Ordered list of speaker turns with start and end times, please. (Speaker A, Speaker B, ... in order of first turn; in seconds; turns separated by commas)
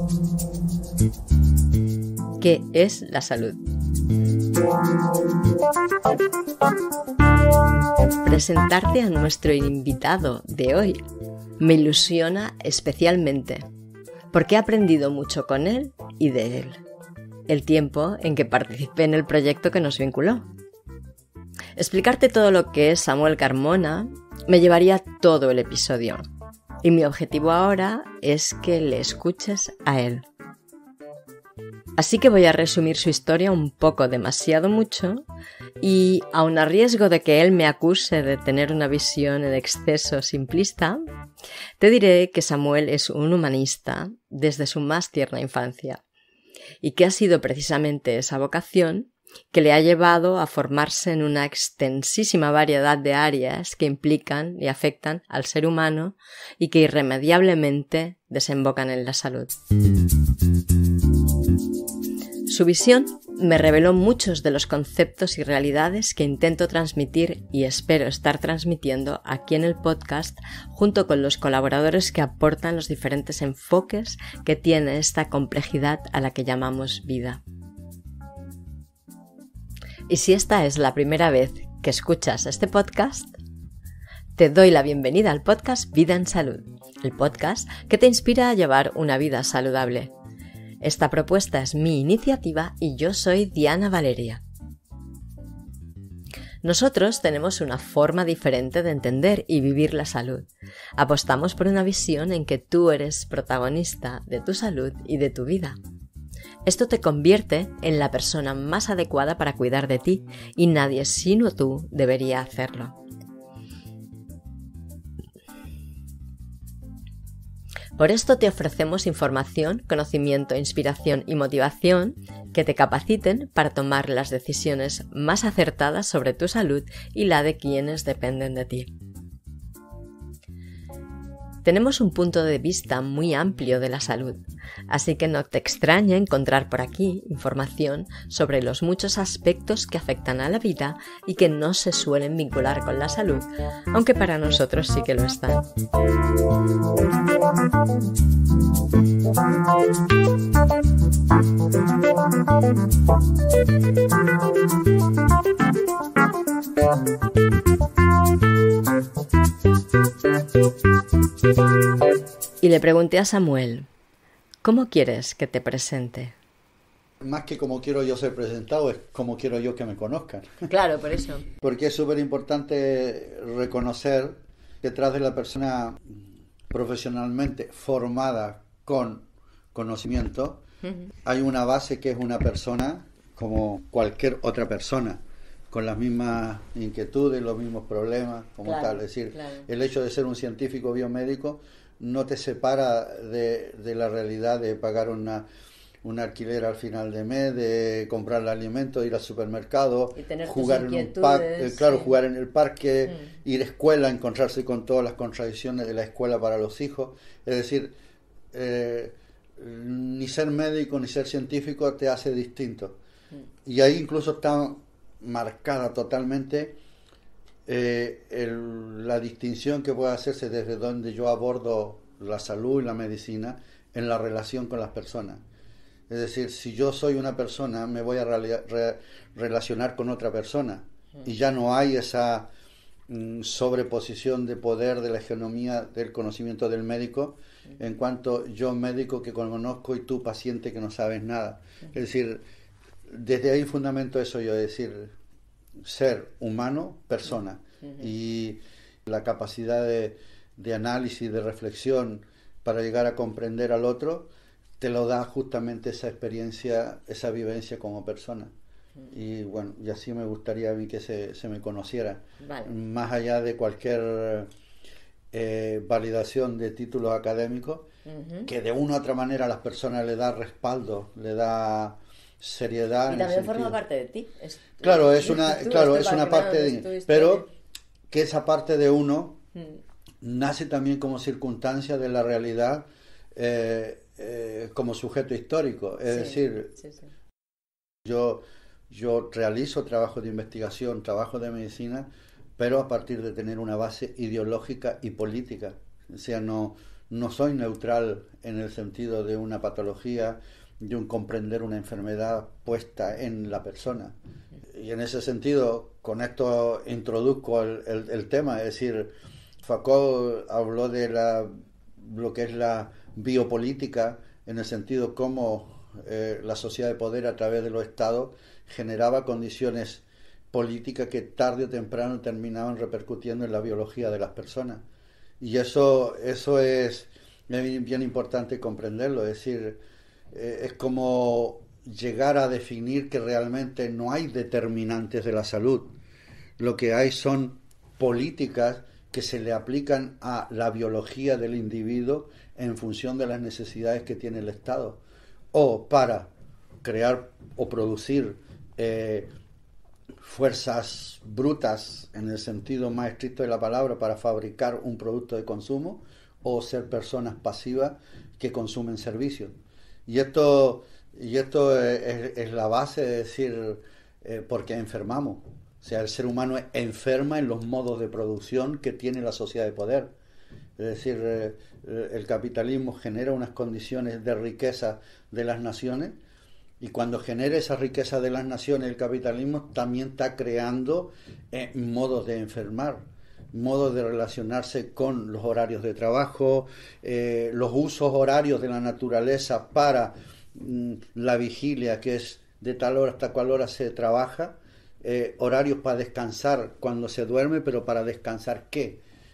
Speaker A: 2.4-3.6, Speaker A: 8.2-11.0, Speaker A: 11.6-13.7, Speaker A: 14.3-16.8, Speaker A: 17.5-20.5, Speaker A: 21.8-26.3, Speaker A: 26.8-30.2, Speaker A: 32.0-35.2, Speaker A: 35.8-41.0, Speaker A: 41.8-46.0, Speaker A: 46.8-59.5, Speaker A: 62.5-77.4, Speaker A: 80.1-83.3, Speaker A: 84.3-90.1, Speaker A: 90.8-94.4, Speaker A: 96.6-105.8, Speaker A: 106.6-113.0, Speaker A: 118.0-128.9, Speaker A: 131.6-145.7, Speaker A: 162.6-163.9, Speaker A: 164.6-166.3, Speaker B: 167.2-170.5, Speaker A: 170.7-171.5, Speaker B: 171.6-176.2, Speaker B: 176.7-180.6, Speaker B: 181.2-195.4, Speaker A: 188.6-189.7, Speaker B: 196.0-207.9, Speaker A: 200.2-202.2, Speaker B: 208.5-213.0, Speaker B: 213.6-216.8, Speaker B: 217.7-225.4, Speaker B: 226.1-232.5, Speaker B: 233.1-242.4, Speaker B: 243.1-245.1, Speaker B: 245.8-258.5, Speaker B: 259.1-264.5, Speaker A: 262.4-262.7, Speaker B: 265.3-267.9, Speaker A: 268.1-268.5, Speaker B: 268.4-273.8, Speaker A: 273.1-277.5, Speaker B: 274.8-277.5, Speaker B: 278.1-279.4, Speaker B: 280.2-286.8, Speaker A: 286.1-287.0, Speaker B: 288.0-304.1, Speaker B: 304.7-324.8, Speaker B: 325.4-329.8, Speaker B: 330.3-335.9, Speaker B: 336.6-345.0, Speaker B: 345.5-346.3, Speaker B: 346.8-349.3, Speaker B: 350.2-359.5, Speaker B: 360.1-370.1, Speaker B: 370.8-376.2, Speaker B: 376.8-399.0